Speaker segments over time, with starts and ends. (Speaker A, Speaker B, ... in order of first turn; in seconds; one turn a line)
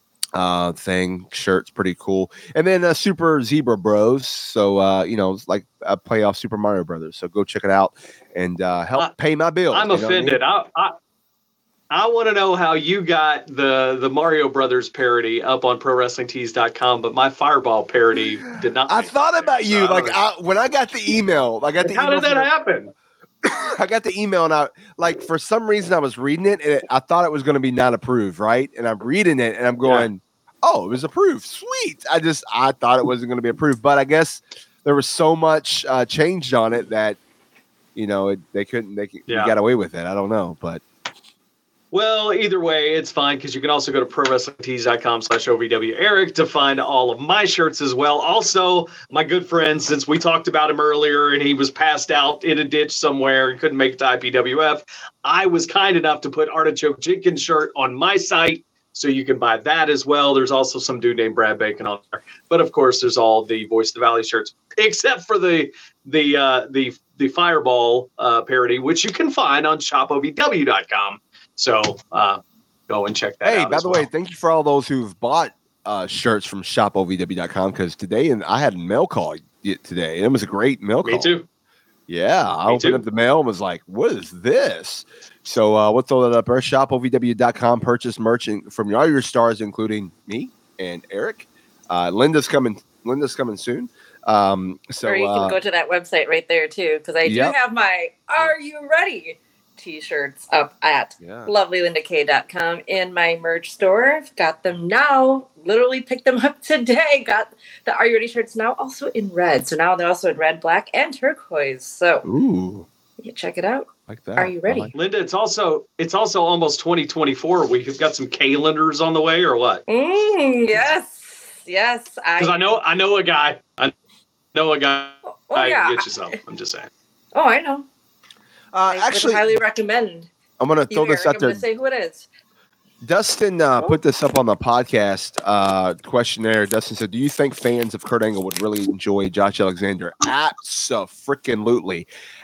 Speaker A: 0.3-10.4
Speaker B: 9.7-10.9
Speaker B: 11.9-20.2
Speaker A: 18.9-22.5
Speaker B: 21.8-22.9
Speaker A: 23.4-37.2
Speaker B: 29.8-30.1
Speaker A: 37.9-40.8
Speaker B: 39.3-39.5
Speaker B: 41.9-74.1
Speaker A: 73.4-81.3
Speaker B: 81.0-81.5
Speaker A: 82.1-95.6
Speaker B: 82.7-83.0
Speaker C: 95.0-112.3
Speaker A: 97.2-97.5
Speaker A: 101.2-101.5
Speaker A: 112.2-112.9
Speaker C: 113.2-114.9
Speaker A: 114.1-114.9
Speaker B: 114.9-119.8
Speaker C: 119.9-122.7
Speaker B: 122.4-123.9
Speaker B: 124.5-126.9
Speaker C: 125.5-126.1
Speaker C: 127.3-127.9
Speaker A: 128.7-129.5
Speaker C: 128.9-130.3
Speaker A: 130.6-131.6
Speaker C: 130.9-132.2
Speaker A: 133.0-142.1